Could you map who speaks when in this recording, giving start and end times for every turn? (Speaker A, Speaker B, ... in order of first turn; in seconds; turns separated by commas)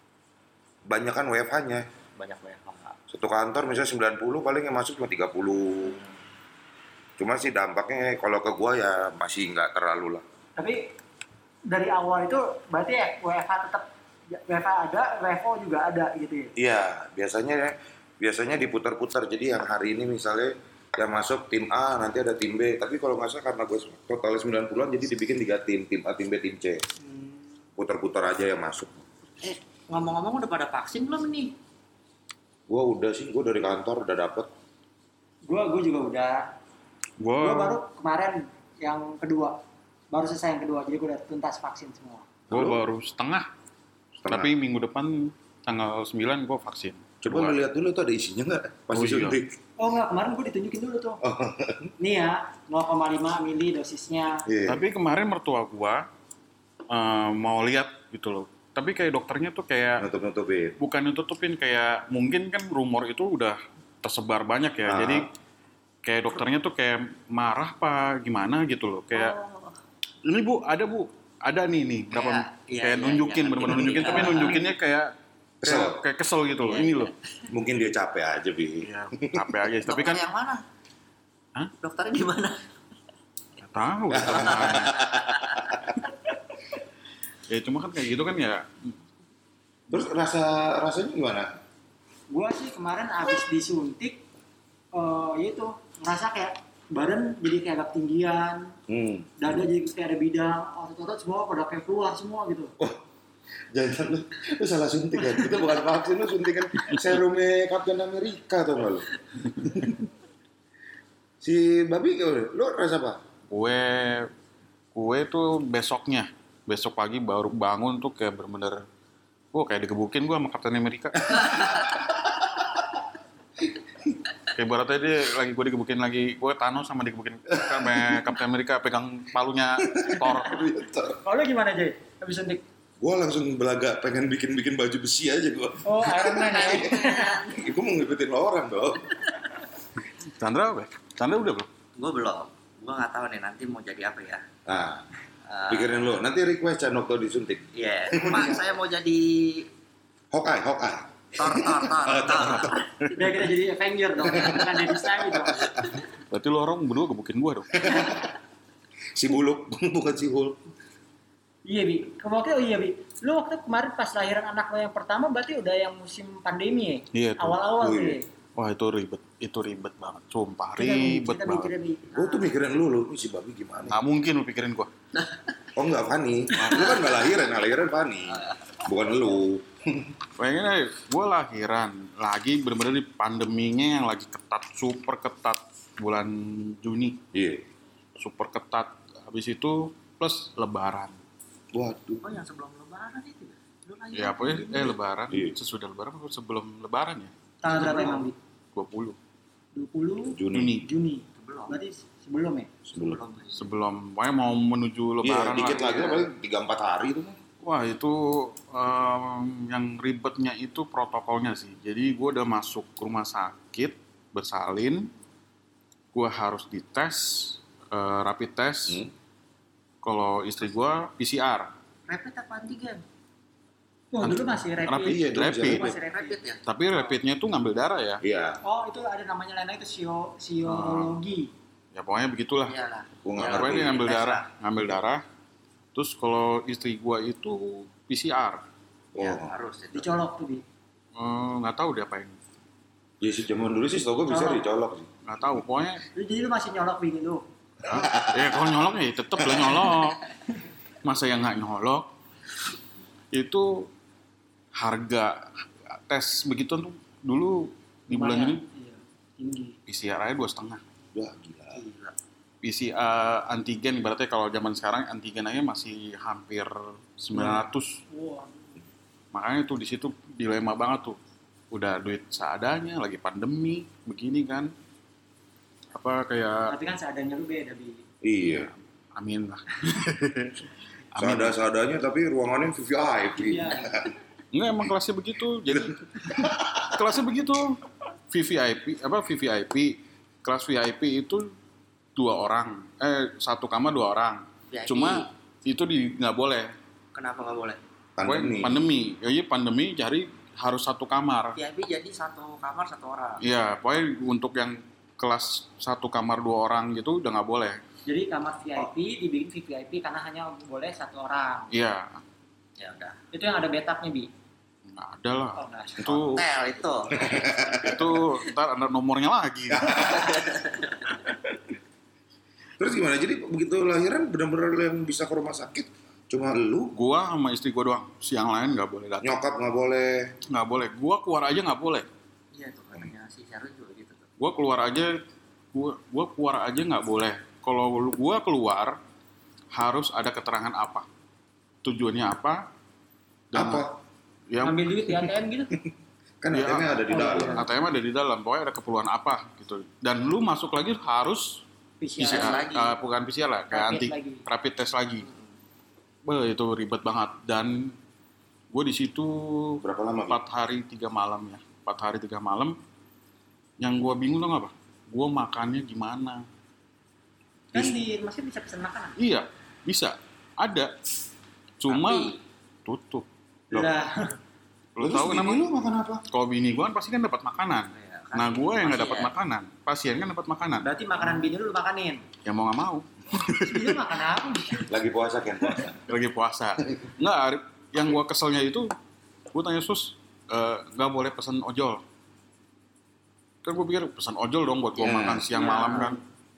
Speaker A: 0.9-1.9, Speaker B: 2.2-3.0, Speaker A: 3.1-6.0, Speaker A: 7.2-10.2, Speaker C: 10.6-10.8, Speaker C: 11.7-16.5, Speaker A: 16.6-26.8, Speaker C: 27.1-27.3, Speaker A: 27.8-29.0, Speaker B: 29.4-31.6, Speaker A: 32.7-34.5, Speaker C: 35.5-36.5, Speaker D: 37.2-37.8, Speaker C: 37.4-39.6, Speaker C: 40.1-42.3, Speaker A: 42.5-42.8, Speaker D: 42.5-43.5, Speaker A: 44.2-44.5, Speaker D: 44.2-47.6, Speaker A: 47.2-49.6, Speaker D: 48.9-49.4, Speaker C: 49.8-51.2, Speaker A: 51.2-51.9, Speaker C: 52.0-54.4, Speaker A: 54.5-54.8, Speaker D: 54.7-56.1, Speaker D: 56.9-60.1, Speaker A: 60.0-60.8, Speaker D: 60.8-65.3, Speaker A: 64.8-65.3, Speaker D: 66.0-69.4, Speaker B: 69.1-69.8, Speaker D: 70.2-75.1, Speaker B: 72.1-74.7, Speaker A: 75.6-76.0, Speaker D: 75.6-77.1, Speaker B: 76.6-77.5, Speaker A: 77.5-79.6, Speaker D: 78.8-80.3, Speaker B: 79.8-80.6, Speaker B: 81.8-82.6, Speaker D: 83.6-85.1, Speaker A: 84.1-85.8, Speaker B: 84.3-85.8, Speaker D: 87.5-89.0, Speaker A: 89.9-91.5, Speaker C: 92.3-94.2, Speaker C: 94.9-98.8, Speaker A: 98.9-99.6, Speaker C: 99.4-102.8, Speaker A: 103.7-110.0, Speaker A: 111.4-113.2, Speaker D: 113.5-114.3, Speaker D: 114.9-118.8, Speaker D: 119.5-121.9, Speaker A: 121.4-122.7, Speaker D: 124.5-130.7, Speaker A: 127.5-128.3, Speaker A: 129.8-131.2, Speaker C: 131.2-132.6, Speaker A: 133.0-139.2, Speaker C: 135.8-137.3, Speaker B: 136.4-137.7, Speaker D: 140.2-141.7, Speaker B: 142.0-144.4, Speaker A: 144.7-145.1, Speaker B: 145.5-146.2, Speaker A: 145.7-148.6, Speaker B: 147.8-149.7, Speaker C: 148.3-148.6, Speaker A: 150.3-153.1, Speaker B: 151.4-152.9, Speaker C: 153.1-155.7, Speaker A: 154.2-156.0, Speaker D: 156.3-157.9, Speaker A: 157.7-158.3, Speaker A: 159.2-160.6, Speaker C: 161.7-168.3, Speaker D: 167.1-167.6, Speaker A: 167.8-168.2, Speaker D: 168.6-171.7, Speaker C: 170.8-172.5, Speaker A: 172.1-174.0, Speaker D: 173.9-174.9, Speaker A: 175.8-180.1, Speaker B: 176.7-177.1, Speaker D: 180.4-187.2, Speaker A: 187.3-187.6, Speaker D: 188.2-191.2, Speaker A: 191.7-192.3, Speaker B: 192.2-195.0, Speaker D: 194.1-198.1, Speaker A: 195.3-195.6, Speaker C: 197.6-198.4, Speaker D: 198.7-199.2, Speaker C: 199.8-202.7, Speaker A: 200.3-200.8, Speaker D: 200.5-200.9, Speaker B: 201.3-201.8, Speaker A: 202.9-203.2, Speaker B: 202.9-203.7, Speaker D: 203.5-206.2, Speaker A: 205.2-207.4, Speaker D: 207.6-215.1, Speaker D: 216.1-219.0, Speaker D: 220.0-221.7, Speaker B: 222.1-223.0, Speaker C: 224.1-226.4, Speaker D: 224.2-225.8, Speaker A: 225.0-225.9, Speaker B: 225.7-226.6, Speaker D: 226.7-228.2, Speaker A: 228.2-228.6, Speaker C: 228.6-231.5, Speaker D: 230.7-231.2, Speaker D: 231.9-232.8, Speaker B: 232.7-234.5, Speaker A: 233.2-234.1, Speaker D: 233.4-235.2, Speaker D: 235.9-238.6, Speaker A: 239.1-239.5, Speaker B: 239.2-240.1, Speaker C: 239.9-240.6, Speaker D: 241.2-242.4, Speaker A: 243.2-245.1, Speaker C: 244.3-244.7, Speaker D: 245.2-246.0, Speaker C: 246.2-247.4, Speaker A: 247.8-248.6, Speaker D: 247.9-250.2, Speaker A: 249.5-249.8, Speaker D: 251.0-252.1, Speaker D: 253.3-253.9, Speaker D: 254.8-258.6, Speaker C: 258.1-259.8, Speaker D: 259.9-260.8, Speaker A: 261.1-261.8, Speaker B: 261.7-262.2, Speaker D: 262.6-268.0, Speaker C: 267.3-268.8, Speaker D: 269.3-271.2, Speaker D: 271.7-274.7, Speaker D: 275.9-276.7, Speaker C: 276.7-278.0, Speaker A: 278.2-278.7, Speaker D: 278.5-281.6, Speaker A: 281.2-284.1, Speaker C: 283.3-284.1, Speaker D: 284.5-287.8, Speaker A: 285.7-287.0, Speaker D: 288.3-291.5, Speaker D: 292.2-296.7, Speaker B: 294.7-295.3, Speaker B: 297.1-297.8, Speaker A: 298.2-298.8, Speaker D: 298.2-301.6, Speaker B: 301.6-303.4, Speaker D: 303.4-307.8, Speaker C: 308.1-311.7, Speaker D: 311.7-312.2, Speaker B: 312.8-313.2, Speaker C: 313.3-314.3, Speaker D: 314.9-316.5, Speaker C: 315.6-316.3, Speaker B: 316.0-318.3, Speaker A: 317.1-318.1, Speaker D: 317.8-320.1, Speaker A: 319.7-320.4, Speaker B: 319.9-321.2, Speaker A: 322.8-326.9, Speaker D: 326.9-329.4, Speaker A: 329.2-330.3, Speaker D: 330.5-332.1, Speaker B: 332.5-334.3, Speaker D: 334.4-335.2, Speaker D: 335.7-339.0, Speaker D: 339.7-341.1, Speaker D: 341.8-342.6, Speaker D: 343.5-343.9, Speaker A: 343.5-344.0, Speaker D: 344.5-345.2, Speaker C: 344.6-345.7, Speaker A: 346.4-347.7, Speaker D: 346.5-351.6, Speaker C: 347.1-347.7, Speaker C: 352.0-352.7, Speaker B: 352.2-353.0, Speaker D: 352.2-355.3, Speaker C: 353.7-354.4, Speaker B: 355.2-355.6, Speaker D: 356.2-357.9, Speaker D: 358.7-362.8, Speaker A: 359.8-360.4, Speaker D: 363.8-366.4, Speaker C: 367.7-369.2, Speaker D: 369.2-370.9, Speaker D: 371.8-373.3, Speaker B: 371.9-372.4, Speaker C: 373.7-374.4, Speaker D: 375.0-375.6, Speaker A: 375.0-376.2, Speaker D: 376.3-380.9, Speaker B: 377.9-379.3, Speaker C: 380.8-382.3, Speaker D: 382.4-384.0, Speaker C: 383.6-384.9, Speaker A: 384.9-386.0, Speaker D: 386.1-388.9, Speaker D: 389.5-392.0, Speaker D: 393.6-396.2, Speaker A: 395.0-395.5, Speaker C: 395.5-396.2